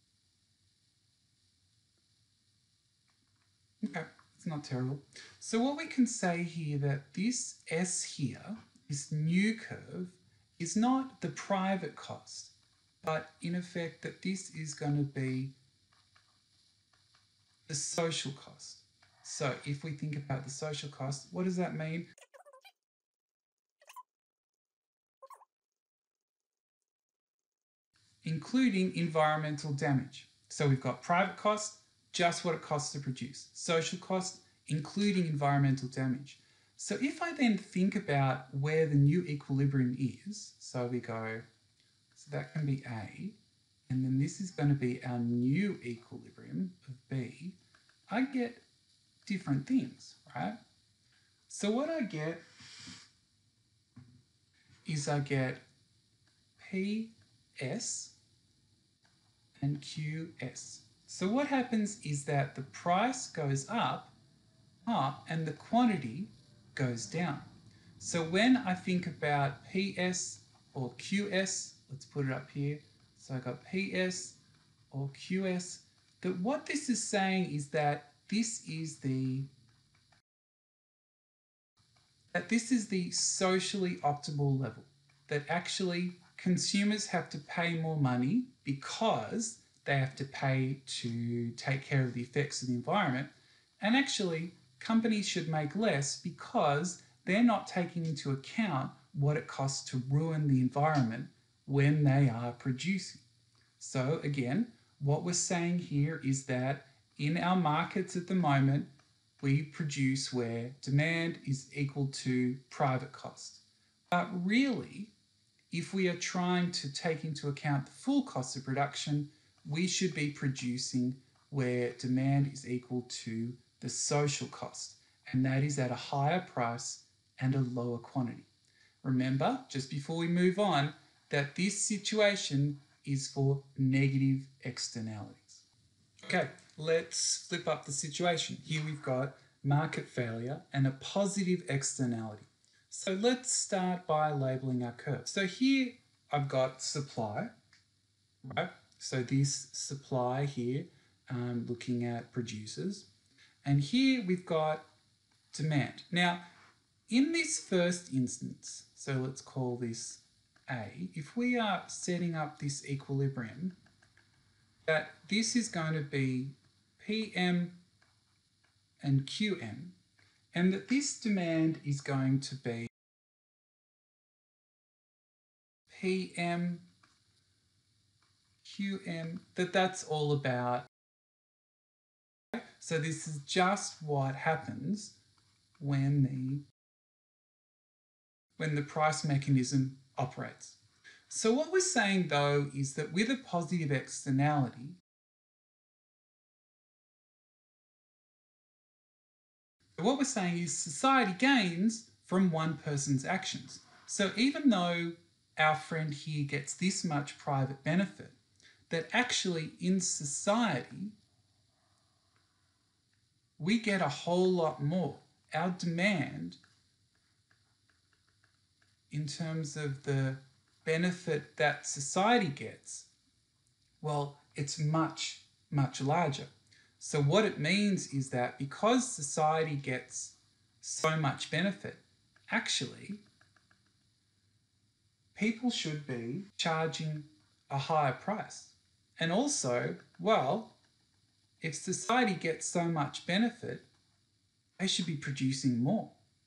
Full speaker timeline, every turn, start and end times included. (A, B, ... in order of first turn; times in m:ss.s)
0:03.8-0:15.6 A
0:17.7-0:22.1 A
0:28.2-0:41.4 A
0:42.2-0:47.6 A
0:48.1-0:48.6 A
0:49.2-0:50.6 A
0:51.5-0:52.4 A
0:54.8-0:55.6 A
0:56.6-0:58.2 A
0:59.6-1:04.2 A
1:04.8-1:14.4 A
1:14.9-1:19.5 A
1:22.3-1:43.2 A
1:43.8-1:55.1 A
1:55.7-2:08.5 A
2:09.0-2:15.7 A
2:16.2-2:27.5 A
2:28.4-2:33.1 A
2:33.6-2:34.9 A
2:35.5-2:36.4 A
2:37.1-2:43.8 A
2:44.9-2:47.8 A
2:49.0-2:50.0 A
2:50.5-2:52.9 A
2:55.9-2:56.9 A
2:58.6-3:00.9 A
3:02.6-3:05.2 A
3:05.8-3:06.6 A
3:08.6-3:15.0 A
3:20.0-3:28.4 A
3:28.9-3:31.2 A
3:33.6-3:36.6 A
3:39.1-3:43.1 A
3:44.0-3:53.2 A
3:55.4-4:00.8 A
4:01.6-4:03.9 A
4:04.8-4:06.2 A